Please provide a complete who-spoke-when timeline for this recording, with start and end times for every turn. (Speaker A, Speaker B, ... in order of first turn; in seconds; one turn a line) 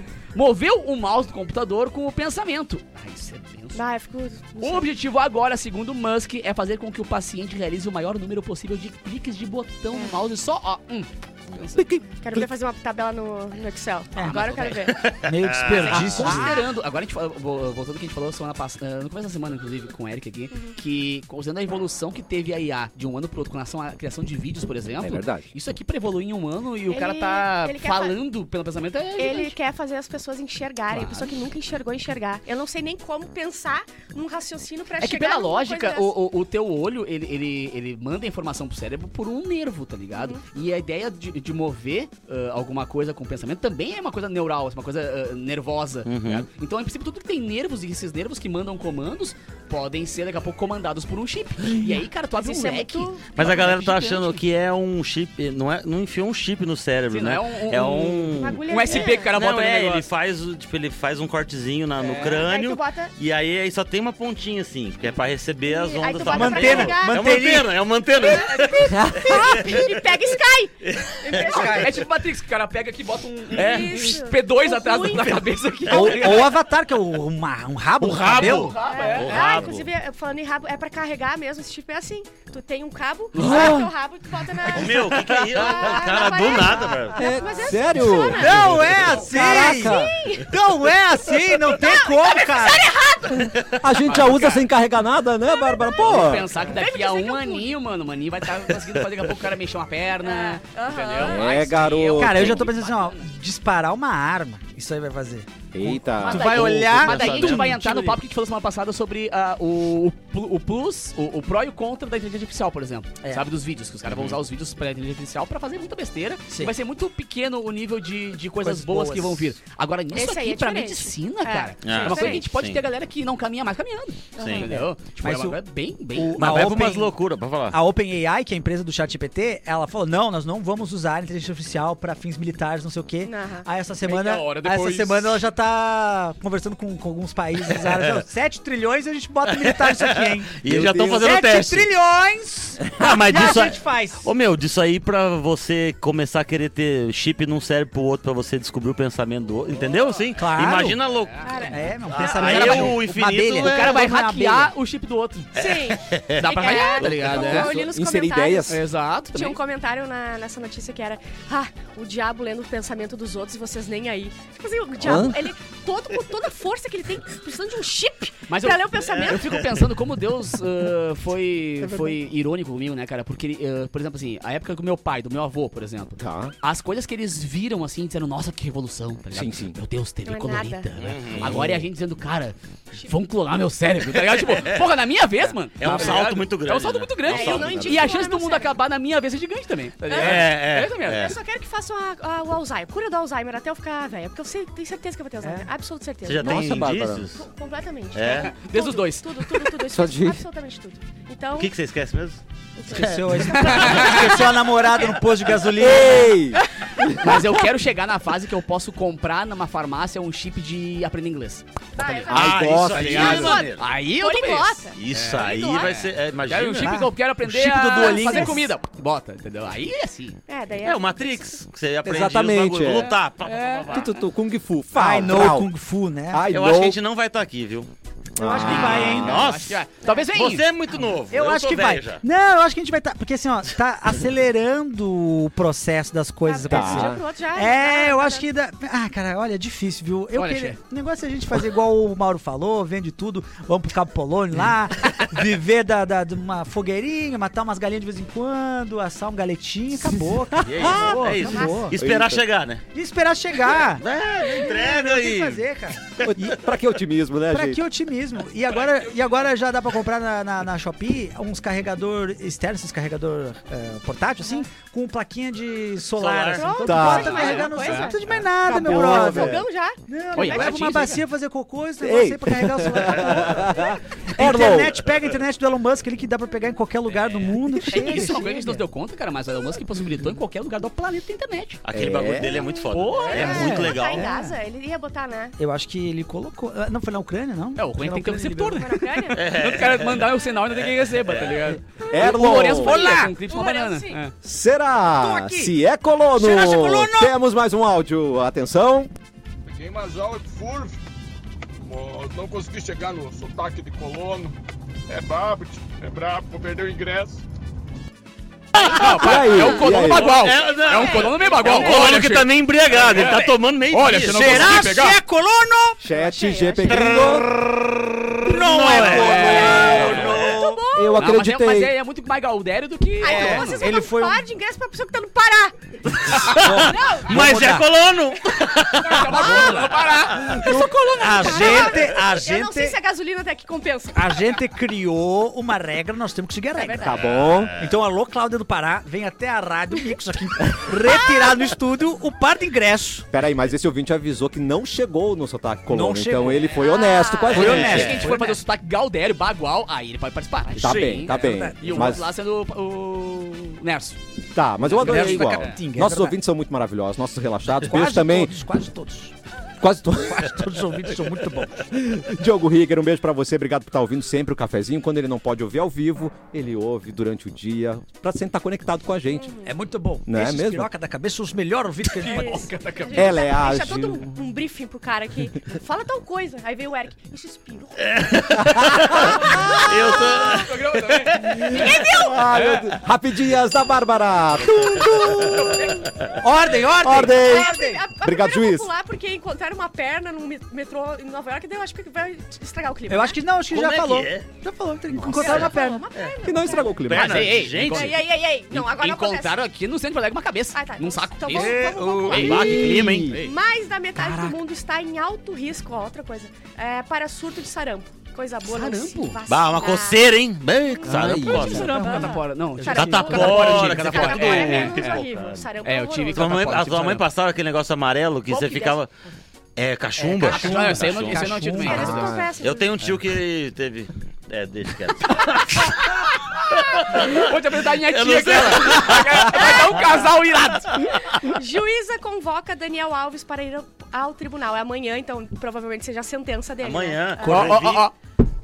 Speaker A: 0.3-3.8
Speaker B: 3.7-4.9
Speaker A: 4.6-11.8
Speaker B: 9.9-10.2
Speaker C: 11.8-12.5
Speaker B: 12.2-15.2
Speaker A: 14.2-14.9
Speaker D: 15.0-16.1
Speaker E: 15.2-16.6
Speaker B: 15.7-16.6
Speaker A: 15.9-29.6
Speaker C: 25.0-25.4
Speaker B: 26.9-28.2
Speaker B: 29.2-36.1
Speaker A: 30.9-31.3
Speaker A: 35.0-54.4
Speaker B: 40.1-40.4
Speaker D: 46.0-46.5
Speaker B: 52.4-53.3
Speaker D: 53.4-70.0
Speaker A: 57.1-60.1
Speaker B: 58.4-59.3
Speaker B: 62.2-63.1
Speaker B: 65.6-67.3
Speaker E: 66.2-67.7
Speaker B: 68.2-71.9
Speaker C: 69.0-69.3
Speaker E: 69.0-69.8
Speaker D: 70.8-71.8
Speaker E: 71.3-71.9
Speaker A: 71.5-76.5
Speaker B: 73.5-76.5
Speaker D: 73.5-74.1
Speaker E: 75.9-78.8
Speaker A: 78.0-79.5
Speaker D: 78.0-79.9
Speaker B: 78.8-90.5
Speaker A: 83.3-83.7
Speaker C: 83.3-83.9
Speaker D: 84.7-87.2
Speaker C: 87.2-90.2
Speaker E: 88.3-92.9
Speaker B: 91.7-93.5
Speaker C: 93.8-96.5
Speaker A: 94.0-94.7
Speaker B: 95.6-95.9
Speaker A: 96.0-103.3
Speaker B: 96.7-97.7
Speaker B: 100.2-101.4
Speaker C: 101.2-102.7
Speaker E: 102.2-108.2
Speaker C: 105.7-106.8
Speaker A: 106.2-126.5
Speaker D: 106.7-107.8
Speaker D: 114.1-114.4
Speaker E: 118.6-119.5
Speaker B: 120.1-122.4
Speaker D: 121.8-122.8
Speaker B: 124.4-124.7
Speaker D: 124.4-124.7
Speaker E: 124.7-125.6
Speaker E: 126.1-127.1
Speaker D: 126.4-127.8
Speaker E: 127.7-140.5
Speaker B: 133.2-133.7
Speaker A: 134.0-135.4
Speaker D: 137.8-138.2
Speaker D: 139.4-141.9
Speaker C: 140.6-141.3
Speaker E: 141.1-144.3
Speaker D: 142.9-154.0
Speaker E: 150.4-151.0
Speaker A: 151.3-151.7
Speaker B: 151.4-152.9
Speaker E: 151.7-154.7
Speaker A: 152.5-152.9
Speaker A: 153.6-155.5
Speaker D: 155.5-157.5
Speaker B: 155.5-158.8
Speaker A: 156.4-157.7
Speaker C: 157.3-158.8
Speaker A: 158.7-159.6
Speaker B: 159.3-169.6
Speaker C: 165.0-165.4
Speaker A: 168.5-191.3
Speaker C: 176.2-176.5
Speaker C: 179.3-179.8
Speaker B: 180.2-180.9
Speaker D: 181.0-181.6
Speaker C: 181.4-181.8
Speaker D: 184.4-184.8
Speaker D: 185.8-188.0
Speaker B: 187.2-188.7
Speaker B: 190.1-190.4
Speaker D: 190.1-191.3
Speaker B: 191.1-201.7
Speaker E: 195.4-195.7
Speaker D: 196.2-197.4
Speaker C: 196.4-197.2
Speaker D: 198.1-198.5
Speaker A: 198.4-199.3
Speaker C: 199.9-200.4
Speaker D: 201.6-203.7
Speaker B: 202.8-204.4
Speaker E: 202.9-206.3
Speaker A: 203.6-204.2
Speaker C: 205.7-207.4
Speaker A: 207.2-220.4
Speaker B: 211.9-212.5
Speaker C: 212.3-213.6
Speaker D: 212.3-213.8
Speaker B: 213.1-215.9
Speaker D: 214.9-217.0
Speaker E: 216.8-218.7
Speaker B: 218.0-218.6
Speaker B: 220.5-221.5
Speaker D: 220.8-224.1
Speaker C: 222.0-223.1
Speaker A: 223.5-223.8
Speaker C: 223.9-225.7
Speaker E: 224.9-226.4
Speaker C: 226.3-227.0
Speaker D: 226.5-227.9
Speaker C: 228.3-229.3
Speaker E: 228.4-229.4
Speaker D: 228.6-232.2
Speaker A: 228.7-230.7
Speaker B: 230.0-230.3
Speaker E: 231.3-251.9
Speaker B: 236.4-238.4
Speaker C: 236.7-237.2
Speaker A: 240.3-240.8
Speaker C: 250.0-251.2
Speaker D: 250.6-252.8
Speaker B: 251.4-251.9
Speaker C: 251.9-252.4
Speaker E: 252.9-254.0
Speaker D: 253.8-255.6
Speaker E: 254.5-256.6
Speaker C: 256.2-257.8
Speaker E: 257.5-278.8
Speaker D: 266.1-266.7
Speaker B: 266.5-270.7
Speaker C: 266.8-267.4
Speaker A: 267.4-268.2
Speaker C: 268.6-269.6
Speaker A: 270.3-271.2
Speaker C: 272.0-275.0
Speaker A: 277.8-281.8
Speaker D: 281.8-284.3
Speaker C: 281.9-282.5
Speaker B: 282.5-285.5
Speaker A: 282.9-283.9
Speaker E: 283.4-284.6
Speaker E: 285.6-288.9
Speaker A: 287.8-294.3
Speaker B: 288.7-289.4
Speaker D: 289.4-290.3
Speaker D: 291.1-291.6
Speaker C: 292.1-293.0
Speaker E: 292.2-293.3
Speaker B: 292.9-294.2
Speaker C: 294.4-299.1
Speaker E: 295.1-295.7
Speaker E: 296.3-297.3
Speaker F: 299.6-301.0
Speaker F: 301.8-304.5
Speaker F: 305.1-307.4
Speaker A: 308.7-315.2
Speaker C: 309.1-310.4
Speaker D: 310.0-314.9
Speaker B: 310.9-312.0
Speaker E: 313.0-313.5
Speaker E: 314.3-316.0
Speaker C: 316.0-317.5
Speaker B: 316.1-317.1
Speaker D: 316.9-320.5
Speaker E: 318.4-320.8
Speaker A: 319.0-320.3
Speaker B: 319.4-321.3
Speaker C: 320.9-321.9
Speaker A: 321.1-323.9
Speaker B: 323.2-325.7
Speaker E: 323.2-324.4
Speaker D: 326.2-329.9
Speaker E: 326.3-327.9
Speaker B: 326.8-327.3
Speaker A: 329.0-331.9
Speaker E: 329.4-329.9
Speaker E: 330.6-333.0
Speaker B: 331.3-334.4
Speaker E: 334.1-337.1
Speaker B: 336.7-337.2
Speaker C: 337.0-337.8
Speaker D: 337.2-337.9
Speaker E: 337.8-343.3
Speaker B: 341.1-341.5
Speaker C: 343.3-348.2
Speaker E: 345.9-346.7
Speaker B: 346.7-347.7
Speaker E: 347.5-348.6
Speaker D: 347.5-348.3
Speaker A: 347.5-354.2
Speaker C: 350.8-352.2
Speaker E: 350.8-352.2
Speaker C: 354.5-358.6
Speaker A: 354.8-355.8
Speaker E: 354.9-356.4
Speaker E: 357.8-359.3
Speaker C: 359.8-360.6
Speaker E: 360.2-361.9
Speaker C: 361.9-369.5
Speaker B: 369.3-369.7
Speaker E: 369.6-372.7
Speaker C: 370.2-370.9
Speaker A: 372.2-373.4
Speaker B: 372.2-378.2
Speaker C: 373.1-374.3
Speaker D: 378.0-381.8
Speaker B: 379.0-380.6
Speaker A: 380.1-381.8
Speaker B: 381.6-382.4
Speaker C: 381.7-385.8
Speaker A: 382.5-382.9
Speaker D: 384.7-385.5
Speaker E: 386.4-388.0
Speaker C: 387.0-388.9
Speaker B: 387.2-393.4
Speaker E: 393.1-396.1
Speaker D: 393.7-394.4
Speaker A: 395.1-395.7
Speaker B: 395.2-397.0
Speaker C: 396.4-397.6
Speaker D: 396.9-398.2
Speaker A: 397.1-403.6
Speaker B: 397.9-399.6
Speaker B: 400.7-402.8
Speaker E: 401.5-402.7
Speaker C: 402.3-403.4
Speaker D: 402.3-403.3
Speaker B: 403.4-410.2
Speaker E: 404.2-404.5
Speaker A: 408.6-409.4
Speaker D: 409.5-411.9
Speaker B: 411.0-416.7
Speaker C: 411.1-411.9
Speaker A: 411.1-415.2
Speaker E: 411.8-413.1
Speaker D: 412.9-415.7
Speaker A: 415.8-417.2
Speaker D: 416.3-419.1
Speaker B: 418.5-419.0
Speaker D: 419.8-421.5
Speaker E: 420.2-422.4
Speaker A: 420.4-422.3
Speaker B: 421.8-422.9
Speaker C: 421.9-422.5
Speaker D: 422.6-426.1
Speaker A: 425.8-431.3
Speaker D: 426.7-430.2
Speaker B: 431.4-437.7
Speaker D: 436.8-438.1
Speaker A: 437.4-438.1
Speaker E: 437.5-437.8